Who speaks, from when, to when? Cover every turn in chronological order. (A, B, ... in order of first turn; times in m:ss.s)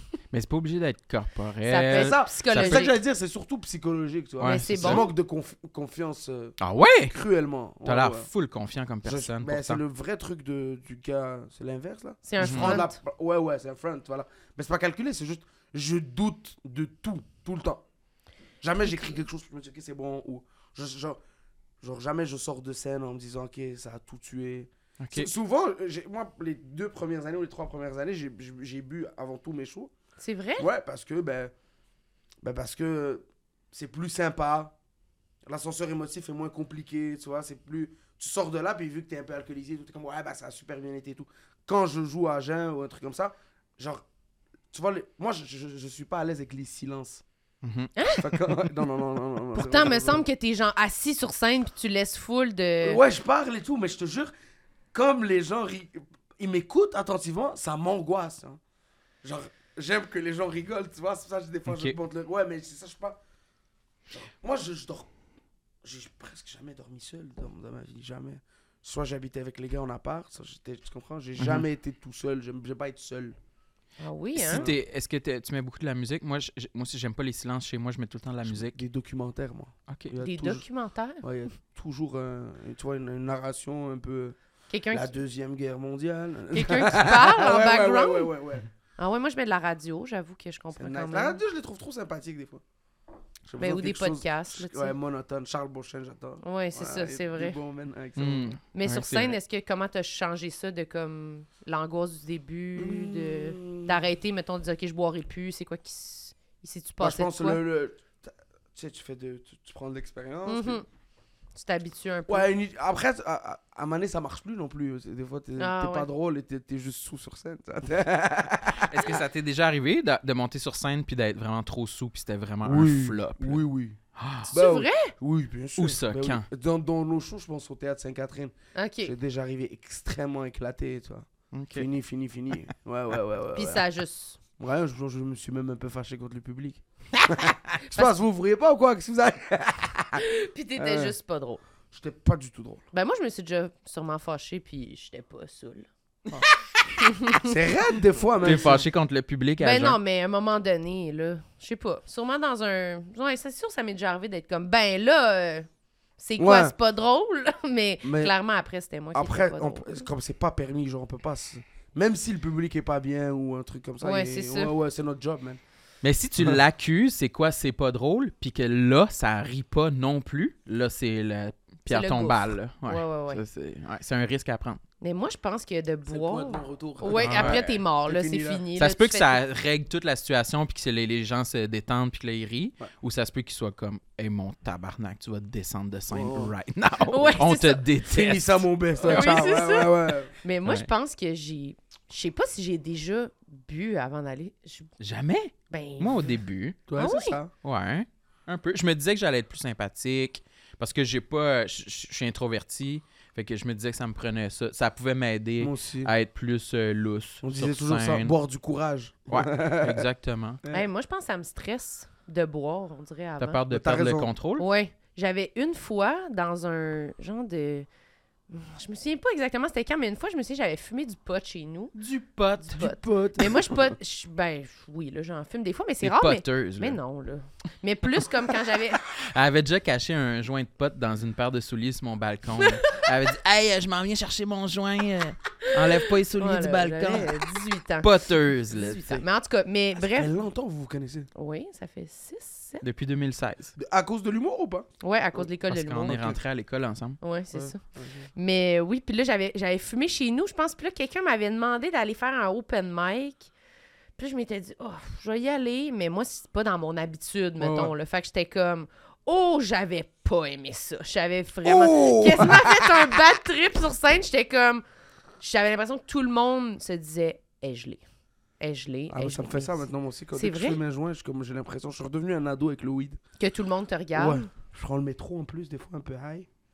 0:00.3-0:02.8 A
0:01.6-0:02.9 B
0:01.9-0:08.3 C
0:04.4-0:05.0 A
0:04.4-0:05.1 B
0:06.6-0:07.2 A
0:07.8-0:09.8 A
0:09.0-0:17.8 C
0:12.2-0:13.0 B
0:12.4-0:12.8 A
0:18.6-0:21.2 C
0:21.8-0:29.9 C
0:25.0-0:25.3 A
0:30.2-0:30.7 B
0:30.6-0:31.5 C
0:32.4-0:34.7 C
0:35.4-0:44.0 C
0:44.7-0:47.2 C
0:47.6-0:47.9 A
0:48.0-0:48.3 B
0:48.2-0:50.2 C
0:49.5-0:53.0 B
0:52.8-0:54.3 C
0:54.9-0:58.6 C
0:59.2-1:03.2 C
1:01.7-1:02.0 A
1:04.1-1:05.1 C
1:05.8-1:13.4 C
1:11.4-1:11.6 A
1:14.0-1:14.7 B
1:14.4-1:18.8 A
1:14.5-1:14.8 C
1:18.4-1:20.6 C
1:20.2-1:21.2 B
1:21.2-1:24.4 C
1:24.7-1:25.1 B
1:24.9-1:28.7 C
1:26.5-1:28.3 B
1:29.0-1:31.4 B
1:30.8-1:32.6 C
1:33.4-1:38.6 C
1:33.6-1:34.9 B
1:36.4-1:37.6 B
1:38.2-1:39.4 A
1:38.7-1:47.6 B
1:42.8-1:44.0 C
1:47.0-1:50.8 C
1:50.4-1:50.8 B
1:51.5-1:52.5 B
1:52.3-1:59.2 C
1:55.6-1:56.1 B
1:58.8-2:03.6 A
2:02.6-2:13.8 C
2:04.2-2:04.5 A
2:04.5-2:05.1 B
2:05.8-2:06.4 A
2:08.7-2:09.1 B
2:11.5-2:11.9 A
2:13.5-2:14.4 B
2:14.6-2:20.2 C
2:17.9-2:18.1 B
2:20.2-2:21.6 B
2:20.8-2:21.1 C
2:21.9-2:22.8 C
2:22.9-2:25.9 B
2:27.0-2:27.5 B
2:27.4-2:28.9 C
2:28.4-2:30.0 A
2:29.6-2:35.7 B
2:36.2-2:40.1 B
2:36.4-2:36.7 C
2:38.0-2:38.3 C
2:39.1-2:45.6 C
2:44.0-2:44.7 B
2:46.0-2:54.8 A
2:51.9-2:53.4 B
2:55.0-2:59.4 B
2:56.0-2:58.6 C
2:57.1-2:57.8 A
2:58.8-3:09.5 A
3:06.1-3:06.5 C
3:07.0-3:07.8 B
3:08.1-3:10.3 C
3:09.0-3:14.9 B
3:15.0-3:16.8 A
3:15.7-3:16.3 B
3:16.9-3:17.5 C
3:17.0-3:17.4 B
3:17.6-3:28.3 A
3:25.6-3:26.1 C
3:27.4-3:30.0 C
3:29.3-3:30.6 A
3:30.7-3:33.6 B
3:33.4-3:34.6 A
3:33.7-3:34.3 C
3:34.6-3:37.9 B
3:38.5-3:41.9 B
3:42.0-3:42.9 A
3:42.6-3:49.0 B
3:42.7-3:43.9 C
3:46.0-3:47.0 A
3:49.0-3:59.2 A
3:52.6-3:53.0 B
3:55.6-4:00.3 B
4:00.0-4:01.3 C
4:01.3-4:02.8 B
4:02.8-4:03.7 A
4:03.8-4:05.4 C
4:05.0-4:06.3 B
4:05.7-4:07.2 A
4:06.1-4:06.4 C
4:07.2-4:07.8 B
4:07.5-4:08.3 C
4:08.3-4:13.5 B
4:14.2-4:24.8 B
4:17.6-4:17.9 C
4:21.6-4:23.0 C
4:25.4-4:28.0 B
4:28.6-4:30.8 B
4:29.1-4:33.2 C
4:33.4-4:34.5 B
4:34.1-4:36.5 C